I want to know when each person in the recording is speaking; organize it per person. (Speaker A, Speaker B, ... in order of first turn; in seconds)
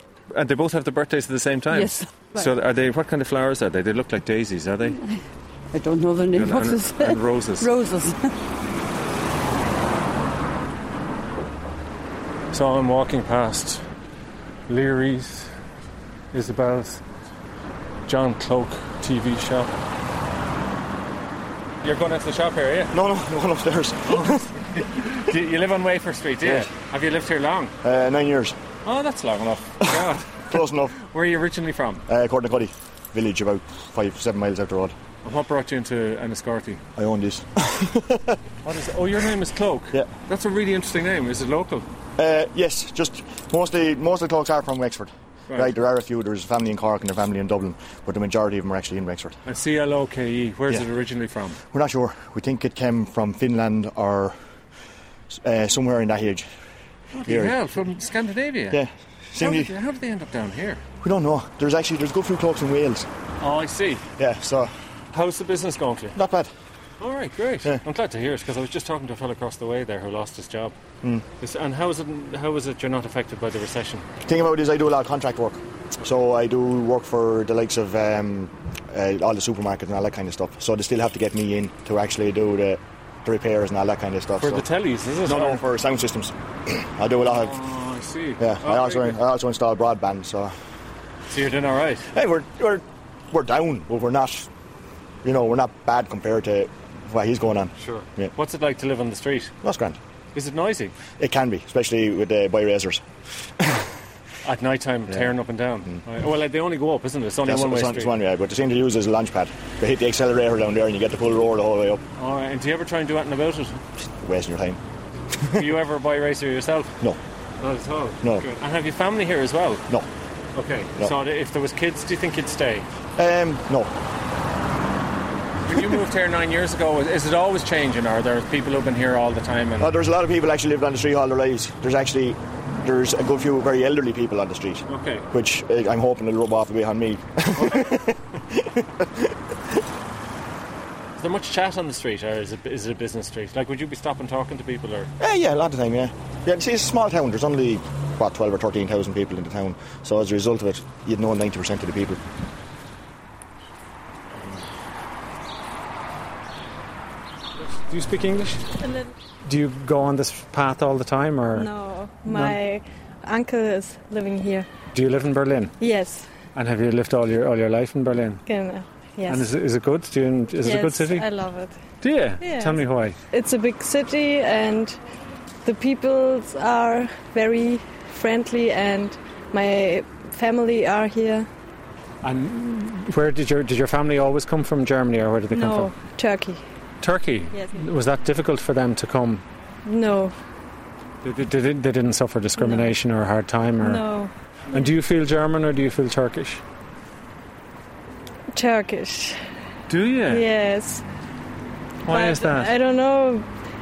Speaker A: 0.3-5.0, 6.3-7.7, 12.5-13.8, 14.7-15.5, 16.3-17.0, 18.1-19.7, 21.8-22.9, 24.8-27.7, 28.8-30.5, 31.1-32.0, 35.2-36.8, 38.6-41.8, 49.4-51.6, 57.1-58.8, 59.4-60.8, 63.4-64.0, 65.1-66.2, 67.0-70.7, 71.4-74.1, 84.4-85.6, 87.2-89.2, 91.3-92.1, 97.8-99.5, 100.3-100.9, 104.4-108.1, 112.2-113.8, 115.5-116.9, 117.6-119.8, 120.5-122.9, 125.7-129.9, 134.9-135.2, 137.6-137.9, 141.2-145.1, 157.9-158.6, 199.9-200.5, 202.1-202.7
Speaker B: 1.7-2.5, 5.7-8.3
Speaker C: 22.9-24.6, 26.4-26.7, 27.8-28.6, 29.8-30.9, 32.1-34.9, 37.0-38.4, 42.2-49.4, 51.7-54.3, 55.3-56.5, 57.3-57.6, 58.7-59.7, 61.0-63.1, 64.2-64.7, 66.1-66.5, 74.2-84.6, 85.2-87.6, 88.4-90.5, 92.1-94.5, 95.2-98.3, 99.6-100.0, 101.2-103.0, 103.6-103.8, 107.4-112.0, 114.2-114.8, 115.4-115.7, 118.2-118.5, 123.2-123.9, 129.8-139.3, 145.2-152.2
Speaker D: 159.5-161.7, 162.2-162.6, 164.9-165.7, 166.6-168.4, 169.3-171.2, 172.0-173.1, 182.2-185.9, 187.0-189.4, 191.2-194.0, 194.7-196.6, 202.1-202.4
Speaker E: 161.5-164.7, 165.8-166.3, 168.4-169.5, 170.6-171.7, 172.4-172.8, 173.3-175.0, 175.6-181.5, 185.5-186.6, 189.8-190.3, 193.8-194.8, 198.5-199.3, 200.3-201.0, 202.1-203.4